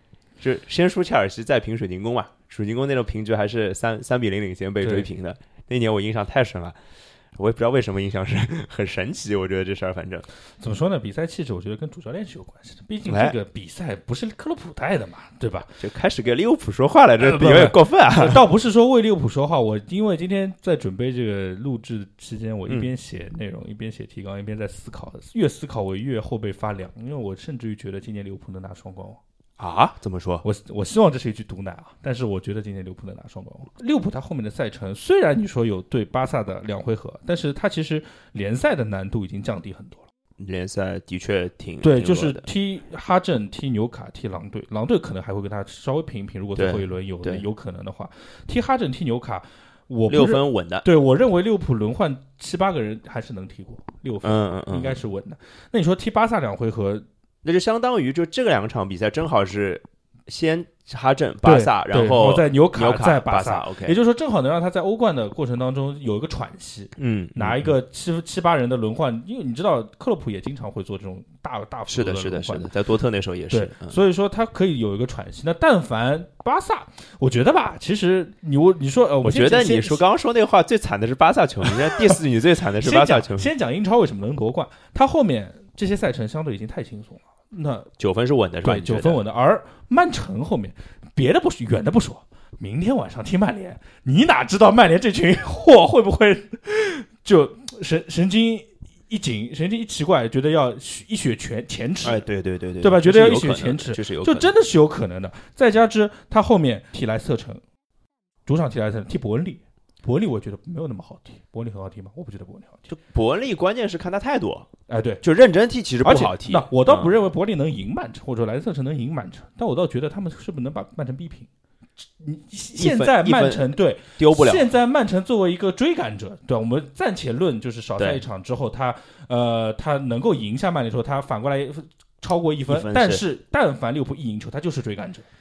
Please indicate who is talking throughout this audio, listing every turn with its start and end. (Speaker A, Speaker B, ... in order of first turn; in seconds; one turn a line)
Speaker A: 0.4-6.8
Speaker B: 4.8-5.1
Speaker A: 7.3-10.2
Speaker B: 10.6-15.8
Speaker A: 13.1-13.3
Speaker A: 15.8-18.4
Speaker B: 17.2-29.2
Speaker A: 29.6-30.4
Speaker B: 30.4-40.1
Speaker A: 40.4-42.5
Speaker B: 41.8-57.0
Speaker A: 46.6-47.4
Speaker A: 50.1-50.9
Speaker A: 54.2-55.0
Speaker A: 57.4-64.0
Speaker B: 61.4-72.7
Speaker A: 67.0-67.7
Speaker A: 71.9-74.0
Speaker B: 73.5-80.0
Speaker A: 79.2-83.5
Speaker B: 81.7-82.2
Speaker B: 82.8-87.9
Speaker A: 88.0-89.2
Speaker B: 88.6-102.2
Speaker A: 102.0-104.5
Speaker B: 102.8-107.6
Speaker B: 108.5-112.9
Speaker A: 112.9-114.7
Speaker B: 114.9-115.2
Speaker A: 115.2-117.1
Speaker B: 116.0-121.5
Speaker B: 122.2-135.2
Speaker A: 122.8-124.7
Speaker A: 132.7-133.2